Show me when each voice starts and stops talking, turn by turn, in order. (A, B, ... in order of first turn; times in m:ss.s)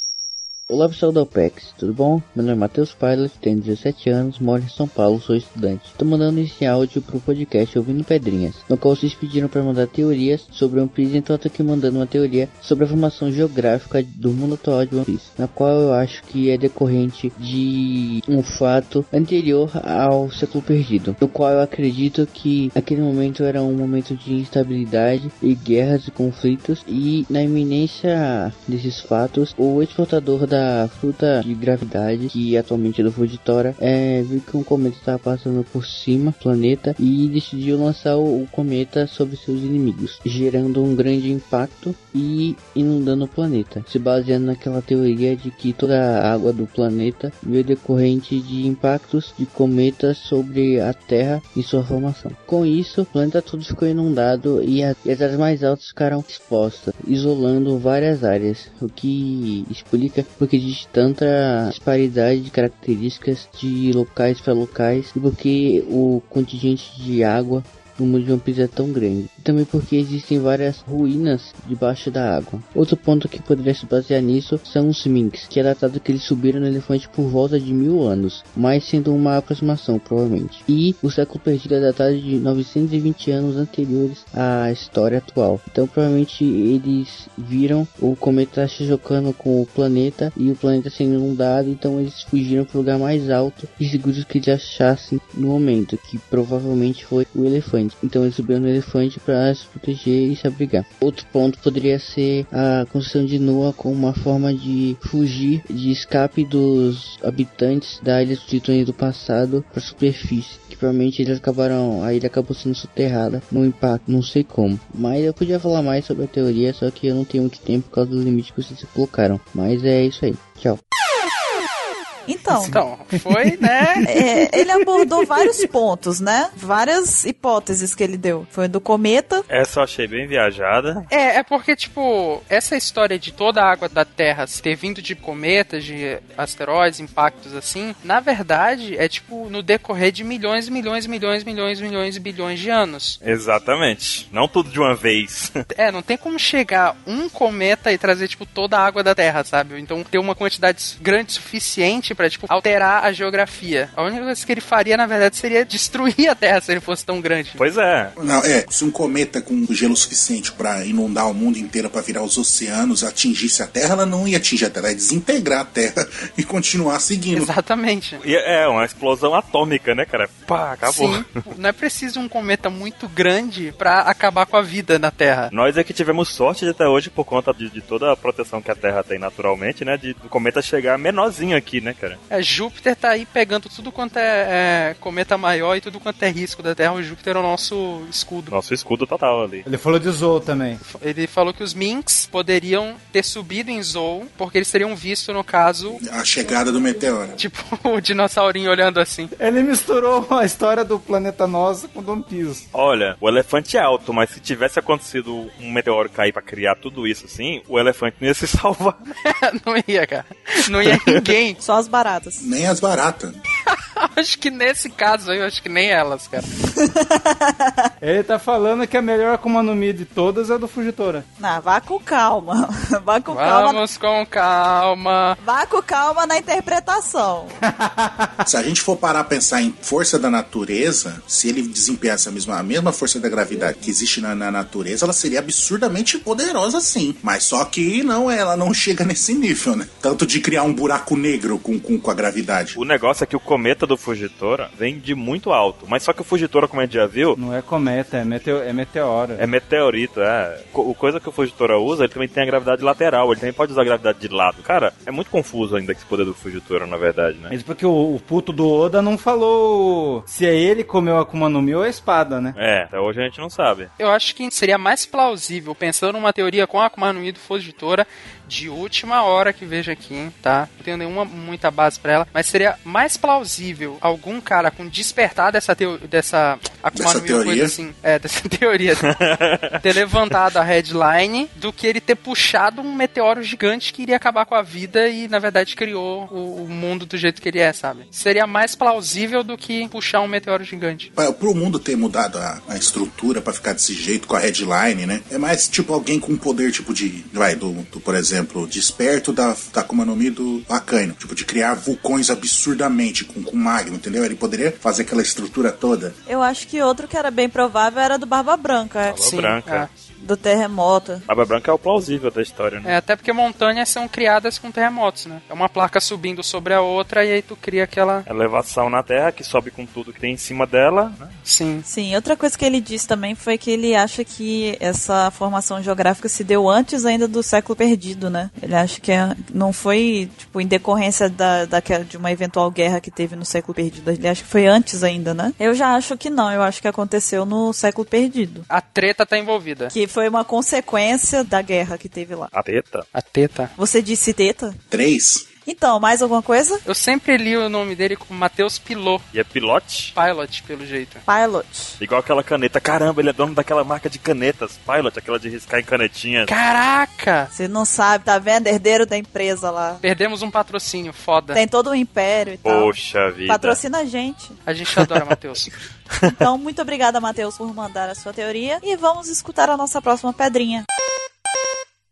0:00.7-2:00.8 A
2:02.3-2:02.8 B
2:02.5-2:04.0 C
2:02.7-2:04.1 D
2:04.0-2:09.4 B
2:09.5-2:11.1 E
2:11.1-2:23.2 D
2:23.2-2:25.5 E
2:25.7-2:37.6 D
2:37.6-2:38.1 E
2:38.2-2:47.5 F
2:47.4-2:48.2 D
2:48.2-2:51.4 E
2:50.8-2:55.5 D
2:55.5-3:02.2 E
3:02.3-3:08.5 D
3:08.5-3:09.6 E
3:09.6-3:10.8 C
3:10.8-3:16.0 D
3:16.0-3:17.4 F
3:17.4-3:19.3 D
3:19.4-3:22.6 C
3:22.7-3:29.1 E
3:29.2-3:31.6 D
3:30.8-3:31.3 E
3:31.6-3:32.4 B
3:32.4-3:33.4 F
3:33.7-3:36.5 D
3:36.7-3:37.9 B
3:38.0-3:41.2 C
3:41.4-3:43.8 B
3:43.3-3:45.4 D
3:45.4-3:47.5 B
3:47.7-3:48.4 C
3:48.4-4:02.8 F
4:02.8-4:07.4 E
4:07.4-4:09.4 C
4:09.4-4:17.5 E
4:17.5-4:22.6 C
4:22.5-4:23.9 E
4:24.0-4:39.1 D
4:36.9-4:37.8 F
4:39.0-4:39.8 E
4:39.8-4:51.1 D
4:51.2-5:06.2 F
5:06.3-5:09.5 B
5:09.1-5:09.9 E
5:09.5-5:09.9 D
5:10.2-5:11.2 B
5:11.3-5:12.9 E
5:12.8-5:18.2 D
5:18.3-5:21.4 E
5:21.4-5:21.8 D
5:21.8-5:38.7 B
5:38.7-5:39.9 D
5:39.9-5:42.5 B
5:42.5-5:43.1 E
5:43.1-5:43.7 D
5:43.8-5:44.8 B
5:44.9-5:45.5 F
5:45.6-5:46.8 B
5:46.8-5:49.2 D
5:49.3-5:50.1 E
5:50.1-5:51.2 D
5:51.3-5:52.0 B
5:52.0-5:56.5 E
5:56.4-5:57.5 D
5:57.5-6:00.0 B
6:00.0-6:01.6 D
6:01.5-6:02.9 B
6:02.6-6:03.8 E
6:03.5-6:04.6 B
6:04.6-6:05.7 D
6:06.2-6:10.8 B